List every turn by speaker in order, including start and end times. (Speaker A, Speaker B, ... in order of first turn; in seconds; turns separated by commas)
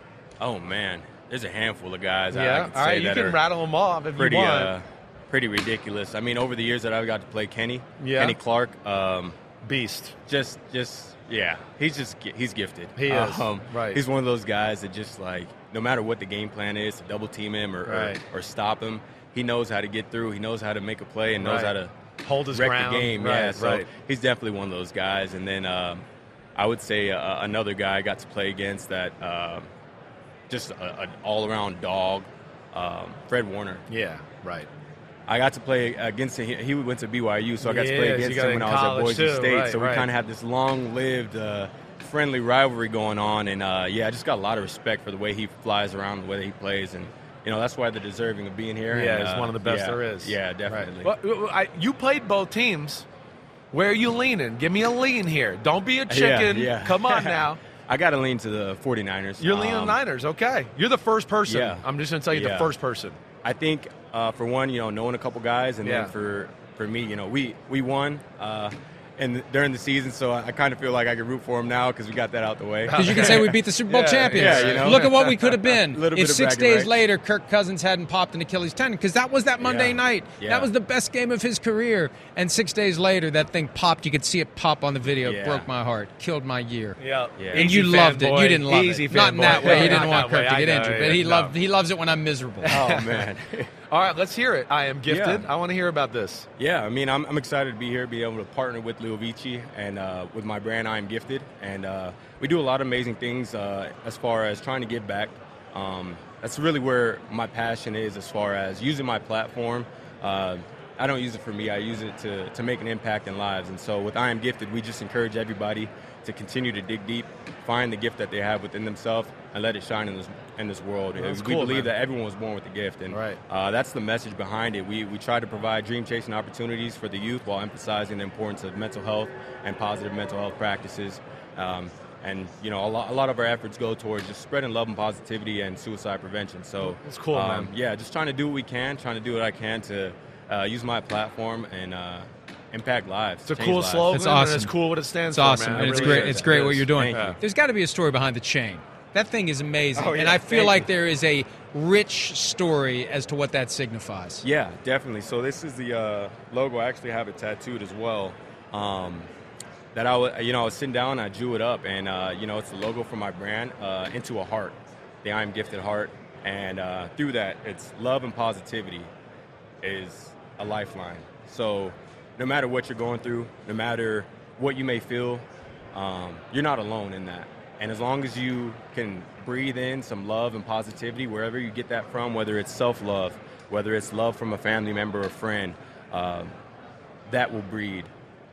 Speaker A: 0.4-3.4, Speaker B: 2.3-4.7, Speaker A: 4.1-9.4, Speaker B: 8.0-8.4, Speaker B: 9.6-10.2, Speaker A: 10.3-21.9, Speaker B: 13.0-14.0, Speaker B: 17.9-18.2, Speaker B: 21.4-23.9, Speaker A: 22.5-26.0, Speaker A: 26.6-29.7, Speaker A: 30.5-33.8, Speaker B: 33.9-34.7, Speaker A: 35.3-51.2, Speaker B: 37.6-40.1, Speaker B: 48.9-53.0, Speaker B: 53.7-57.6, Speaker A: 56.1-60.0, Speaker B: 59.4-63.2, Speaker A: 61.5-62.7, Speaker A: 63.4-73.6, Speaker B: 65.8-66.1, Speaker B: 72.9-75.3, Speaker C: 73.0-87.0, Speaker A: 74.3-75.3, Speaker A: 75.9-77.0, Speaker A: 79.6-80.7, Speaker A: 85.2-85.7, Speaker B: 87.0-91.5, Speaker A: 87.4-87.9, Speaker C: 87.5-92.8, Speaker A: 89.4-90.3, Speaker B: 92.6-93.3, Speaker A: 92.7-93.7, Speaker B: 93.9-96.5, Speaker A: 95.1-95.5, Speaker A: 96.6-144.2, Speaker B: 121.2-121.9, Speaker B: 123.1-123.4, Speaker B: 136.8-137.7, Speaker B: 143.5-146.5, Speaker C: 144.1-144.7, Speaker C: 145.3-154.4, Speaker A: 145.7-147.4, Speaker B: 147.1-147.4, Speaker A: 149.9-150.9, Speaker A: 154.4-159.3, Speaker A: 159.9-169.1, Speaker A: 169.8-186.5, Speaker A: 187.3-188.1